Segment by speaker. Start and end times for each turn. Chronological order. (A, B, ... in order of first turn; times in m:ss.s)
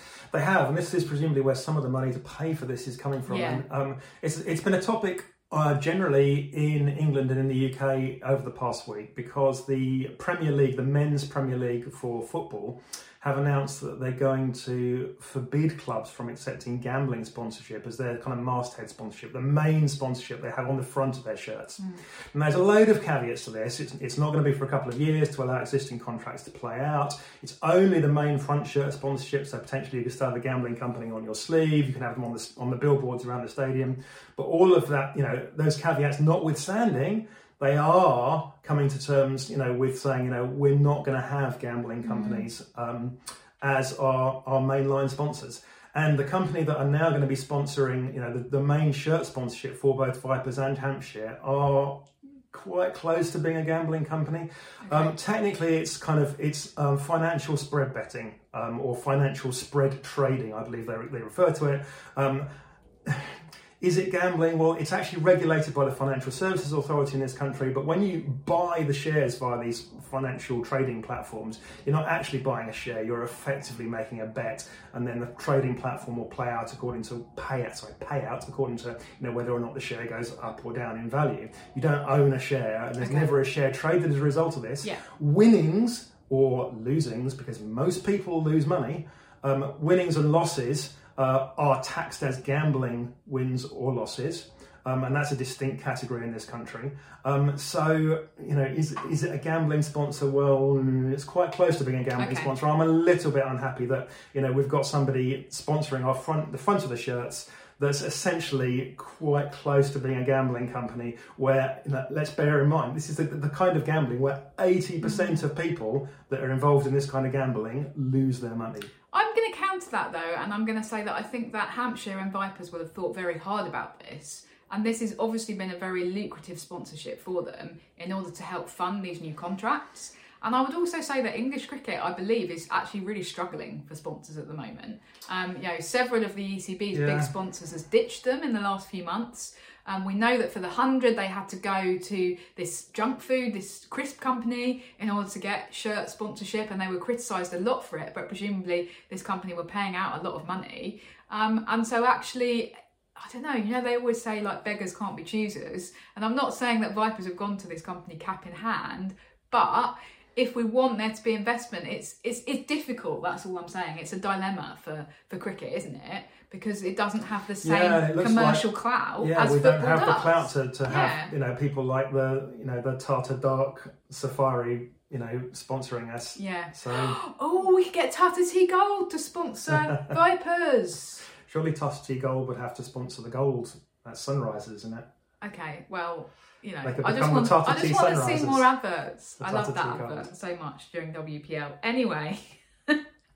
0:00.3-1:02.5 A
0:03.3-0:03.6 B
0:42.0-0:42.5 B
0:54.8-0:55.1 B
1:03.0-1:58.9 A
1:23.0-1:23.3 B
1:42.2-1:42.5 B
1:55.0-1:55.4 B
1:59.1-2:51.3 B
2:16.9-2:17.3 A
2:47.6-2:48.6 A
2:49.2-2:57.1 A
2:56.4-3:01.2 B
2:59.7-3:00.2 A
3:01.4-3:05.0 A
3:05.4-3:13.0 B
3:06.8-3:08.6 A
3:09.4-3:10.3 A